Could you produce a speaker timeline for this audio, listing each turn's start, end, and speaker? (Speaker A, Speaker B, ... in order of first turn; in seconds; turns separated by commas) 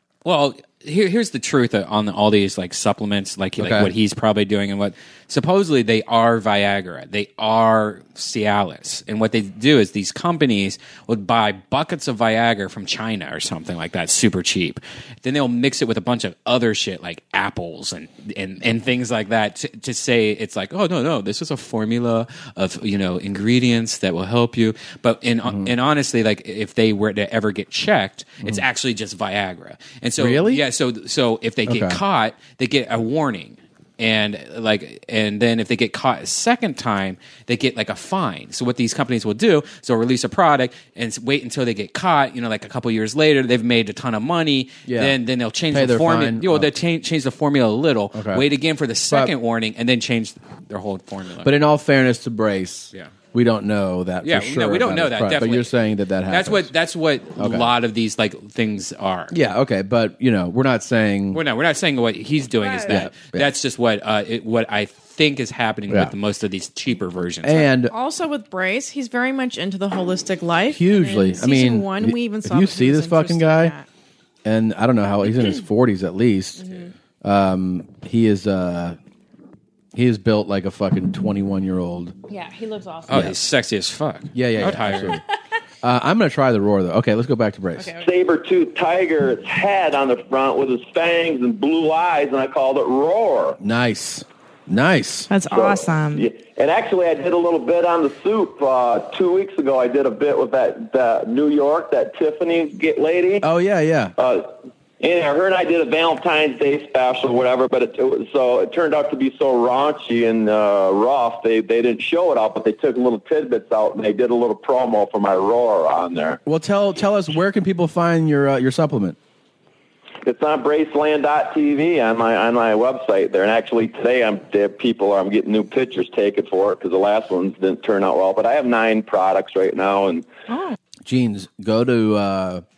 Speaker A: 0.2-51.5, Speaker B: 3.6-3.9, Speaker B: 25.4-25.7, Speaker B: 30.2-30.6, Speaker B: 31.7-32.0, Speaker B: 44.9-45.1, Speaker B: 45.7-46.7, Speaker B: 48.1-48.5, Speaker B: 51.4-56.7, Speaker A: 54.2-55.7, Speaker A: 56.3-59.3, Speaker B: 57.4-57.7, Speaker B: 59.3-61.4, Speaker A: 61.3-67.7, Speaker B: 62.8-63.5, Speaker B: 65.9-66.1, Speaker B: 67.4-67.9, Speaker C: 67.9-73.8, Speaker B: 70.7-73.7, Speaker B: 74.4-79.0, Speaker B: 79.9-82.2, Speaker D: 82.3-83.2, Speaker A: 83.1-85.2, Speaker B: 83.1-83.3, Speaker B: 84.3-85.2, Speaker B: 85.8-88.0, Speaker E: 88.0-93.6, Speaker B: 93.6-95.3, Speaker D: 95.3-96.2, Speaker E: 95.5-103.5, Speaker B: 103.4-104.1, Speaker E: 104.2-116.4, Speaker B: 116.5-119.2, Speaker E: 120.2-130.2, Speaker D: 130.5-130.8, Speaker B: 131.0-132.6